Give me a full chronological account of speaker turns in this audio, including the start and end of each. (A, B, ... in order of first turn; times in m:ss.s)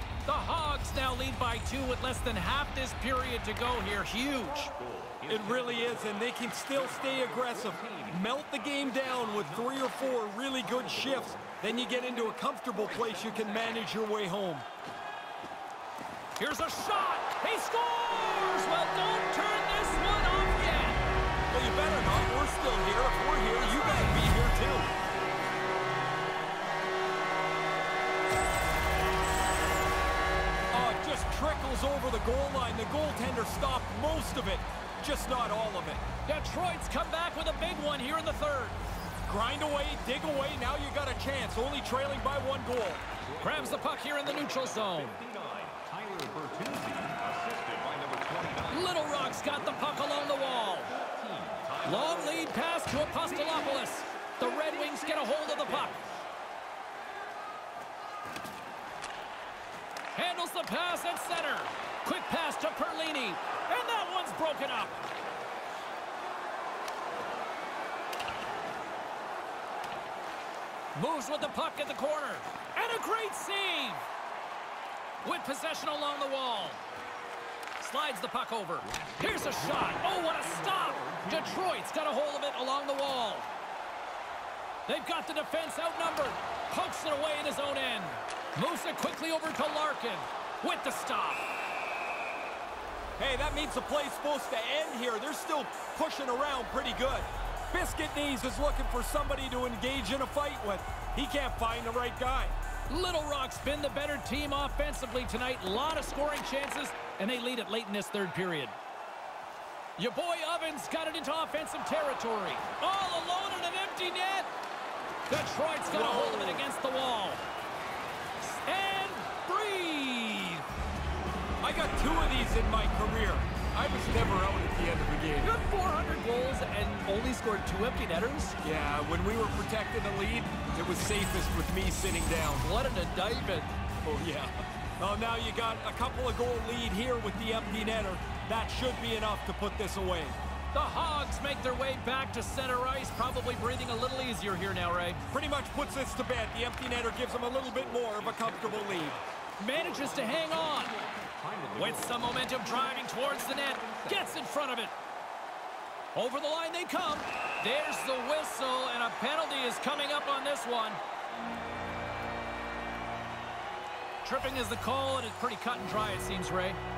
0:00.2-0:04.7 A
0:04.2-0:12.1 B
0:05.3-0:14.6 C
0:12.7-0:14.0 B
0:16.4-0:21.0 A
0:21.5-0:24.9 C
0:23.7-0:24.2 A
0:30.7-0:36.0 C
0:36.3-0:38.8 A
0:39.3-0:43.0 C
0:43.2-0:49.5 B
0:43.4-0:45.2 A
0:48.7-0:50.9 A
0:50.6-0:56.2 B
0:51.8-0:56.0 A
1:00.1-1:05.0 A
1:10.9-1:14.0 A
1:15.2-1:16.8 A
1:17.8-1:23.5 A
1:18.8-1:21.7 B
1:24.9-1:31.4 A
1:33.2-1:42.6 C
1:42.9-1:48.8 A
1:50.0-1:54.5 A
1:55.3-1:57.4 A
1:55.9-1:56.6 C
1:58.4-2:00.6 A
2:01.6-2:05.5 C
2:05.4-2:08.6 A
2:08.6-2:12.7 C
2:12.6-2:13.7 A
2:14.0-2:20.4 C
2:20.7-2:25.2 A
2:25.3-2:29.2 C
2:27.3-2:34.4 B
2:29.6-2:30.9 A
2:31.8-2:34.9 A
2:36.1-2:41.0 A
2:44.2-2:46.8 A